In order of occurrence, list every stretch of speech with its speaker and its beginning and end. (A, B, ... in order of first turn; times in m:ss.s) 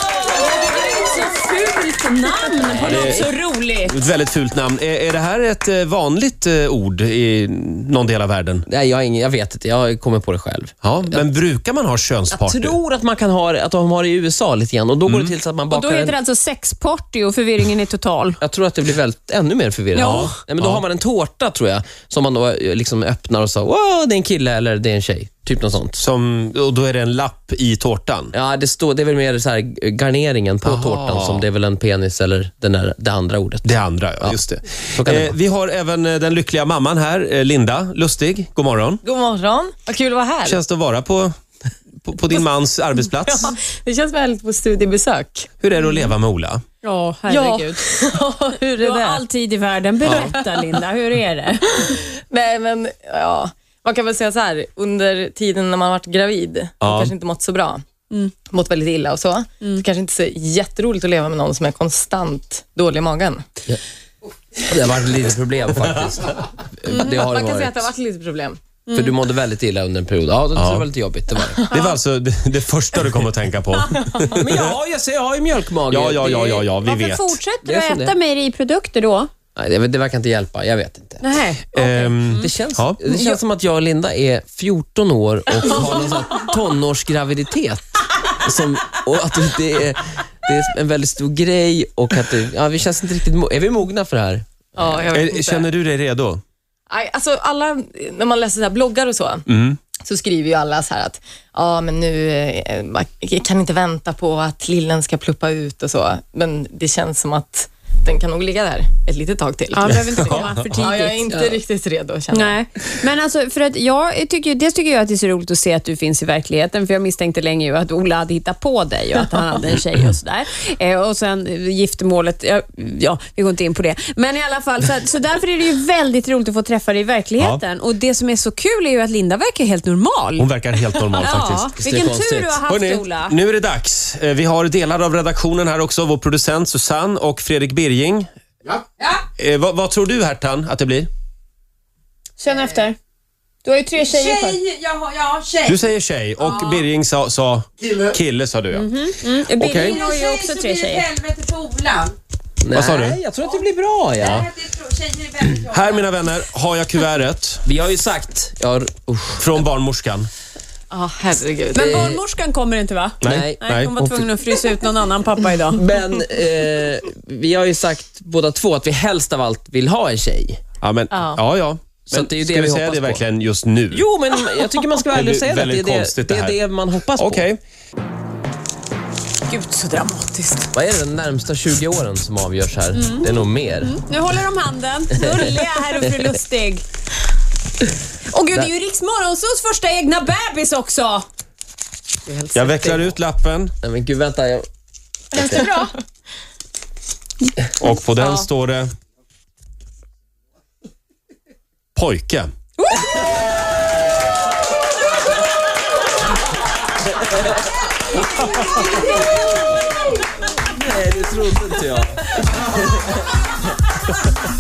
0:00.1-0:04.0 A
0:02.7-0:03.2 B
0:02.7-0:03.3 C
0:03.8-0:08.7 C
0:08.7-0:11.3 B
0:10.8-0:12.8 C
0:12.3-0:16.2 B
0:15.1-0:15.3 C
0:15.7-0:18.4 A
0:18.4-0:26.0 B
0:20.0-0:20.3 A
0:20.0-0:20.8 C
0:26.0-0:28.3 C
0:28.3-0:33.7 B
0:30.6-0:31.4 C
0:33.6-0:39.0 C
0:34.9-0:35.4 B
0:39.0-0:40.6 D
0:40.4-0:41.3 C
0:42.0-0:43.5 C
0:43.2-0:45.5 D
0:45.6-0:46.6 C
0:46.8-0:47.8 A
0:47.3-0:49.2 D
0:48.8-0:52.0 A
0:50.0-0:50.3 C
0:50.1-0:50.8 D
0:51.8-0:57.8 D
0:56.8-0:57.1 C
0:58.4-1:03.4 D
1:04.6-1:07.9 B
1:06.9-1:08.6 D
1:08.9-1:09.1 A
1:08.9-1:11.6 B
1:10.6-1:10.9 C
1:11.6-1:11.9 D
1:11.7-1:14.7 C
1:14.3-1:16.7 B
1:15.9-1:17.4 C
1:16.7-1:19.3 A
1:17.6-1:18.2 B
1:19.6-1:21.2 B
1:21.2-1:22.2 A
1:21.7-1:23.0 C
1:22.4-1:35.0 B
1:34.8-1:35.7 D
1:35.1-1:36.4 C
1:36.9-1:39.4 D
1:39.5-1:39.8 C
1:40.0-1:52.6 D
1:49.7-1:51.2 A
1:49.9-1:50.8 C
1:51.3-1:51.6 B
1:52.3-2:10.5 A
2:10.4-2:11.8 C
2:11.2-2:13.4 A
2:11.8-2:12.6 B
2:12.7-2:18.3 C
2:19.4-2:21.1 C
2:22.4-2:23.0 A
2:23.6-2:24.7 A
2:24.7-2:25.6 E
2:25.6-2:28.9 C
2:28.7-2:31.2 A
2:29.6-2:30.0 C
2:31.1-2:32.2 E
2:32.6-2:34.5 B
2:32.7-2:33.2 C
2:34.2-2:34.5 C
2:34.6-2:35.7 E
2:35.4-2:37.7 C
2:37.6-2:39.6 B
2:39.4-2:40.3 C
2:40.9-2:42.2 D
2:41.7-2:45.8 A
2:43.2-2:43.9 C
2:43.2-2:44.3 B
2:45.8-2:50.6 B
2:50.8-2:54.0 C
2:51.1-2:51.4 D
2:52.1-2:53.2 B
2:53.9-2:57.4 B
2:55.1-2:56.6 C
2:57.2-2:57.6 C
2:59.5-3:00.7 A
3:00.7-3:04.0 B
3:02.9-3:06.8 A
3:08.3-3:11.2 A
3:12.2-3:13.2 D
3:12.5-3:13.7 C
3:13.8-3:14.7 B
3:15.3-3:15.7 B
3:15.3-3:15.9 A
3:17.8-3:18.9 C
3:18.2-3:18.4 D
3:22.0-3:22.5 C
3:22.8-3:23.2 A
3:28.7-3:29.0 A
3:30.6-3:33.1 B